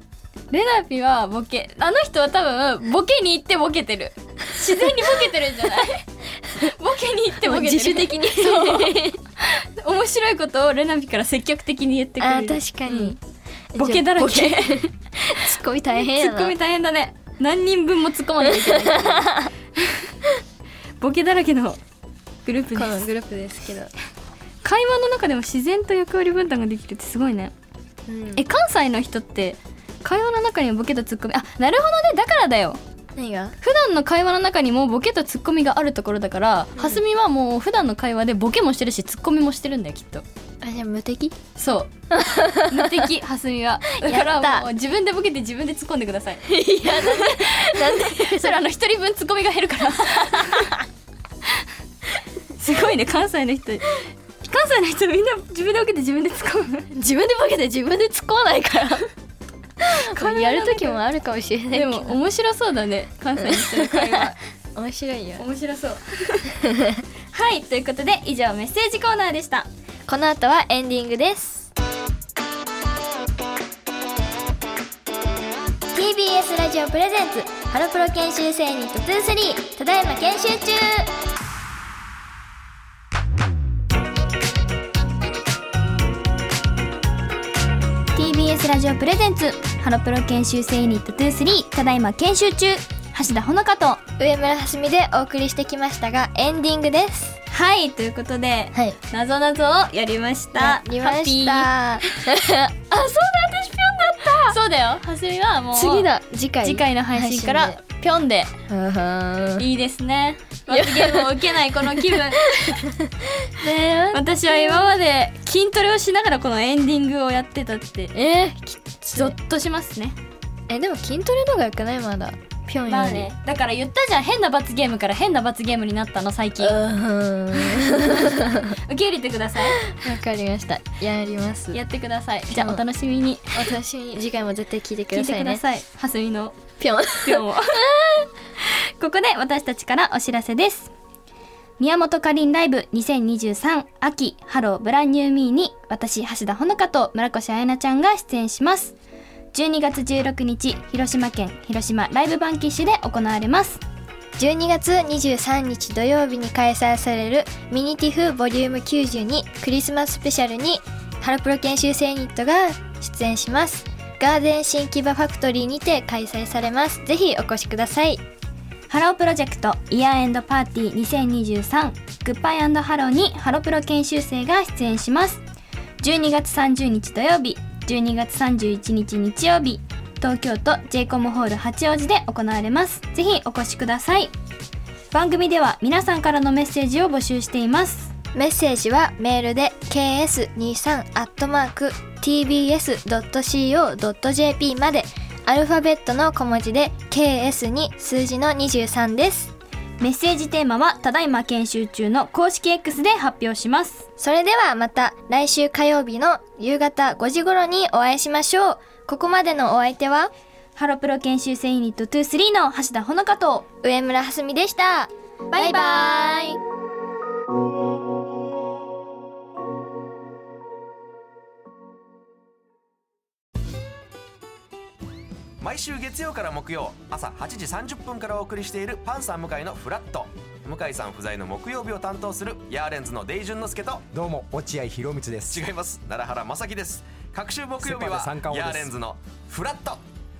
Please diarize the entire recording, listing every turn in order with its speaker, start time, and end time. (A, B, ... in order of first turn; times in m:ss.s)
0:00.5-0:13.2 A
0:07.4-0:09.2 B
0:12.2-0:13.2 B
0:13.7-0:16.5 B
0:13.8-0:14.8 A
0:15.9-0:20.1 A
0:18.4-0:19.4 B
0:21.0-0:21.8 A
0:22.4-0:23.0 A
0:22.7-0:23.9 B
0:24.6-0:27.5 A
0:28.1-0:28.4 B
0:28.4-0:32.8 A
0:33.2-0:33.6 B
0:33.6-0:40.2 A
0:36.8-0:37.0 B
0:40.6-0:41.3 B
0:41.5-0:41.9 A
0:42.1-0:43.1 B
0:42.7-0:50.7 A
0:43.9-0:44.7 B
0:46.5-0:48.6 B
0:50.2-0:50.7 B
0:52.6-0:56.9 A
0:56.9-0:59.1 B
0:59.8-1:02.2 B
0:59.9-1:01.0 A
1:01.7-1:04.4 A
1:03.4-1:05.4 B
1:05.4-1:06.5 A
1:06.6-1:07.0 B
1:07.3-1:09.7 A
1:10.1-1:11.7 B
1:15.9-1:21.1 B
1:28.1-1:34.0 A
1:34.2-1:37.4 B
1:37.5-1:41.7 A
1:40.5-1:44.6 B
1:44.4-1:46.1 A
1:45.7-1:47.8 B
1:46.6-1:48.5 A
1:48.7-1:49.7 B
1:49.6-1:52.8 A
1:50.7-1:51.4 B
1:51.9-1:54.9 B
1:54.1-1:58.1 A
1:58.1-1:59.3 B
1:59.1-2:00.2 A
2:00.7-2:03.3 B
2:02.8-2:06.8 A
2:06.6-2:08.8 B
2:07.6-2:09.8 A
2:09.8-2:11.8 B
2:11.7-2:13.5 A
2:12.5-2:12.8 B
2:13.5-2:15.6 B
2:15.1-2:16.6 A
2:16.8-2:17.8 B
2:17.2-2:20.9 A
2:21.8-2:28.9 A
2:29.5-2:33.8 A
2:34.4-2:48.2 B
2:48.9-2:55.4 A
2:56.0-3:04.3 A
3:05.1-3:08.1 A
3:08.3-3:19.5 B
3:20.0-3:24.0 A
3:24.2-3:30.3 B
3:30.8-3:33.6 A
3:33.8-3:36.6 B
3:35.5-3:36.5 A
3:45.6-3:54.1 C
3:54.1-3:55.6 D
3:55.5-4:00.0 C
3:57.8-3:58.9 D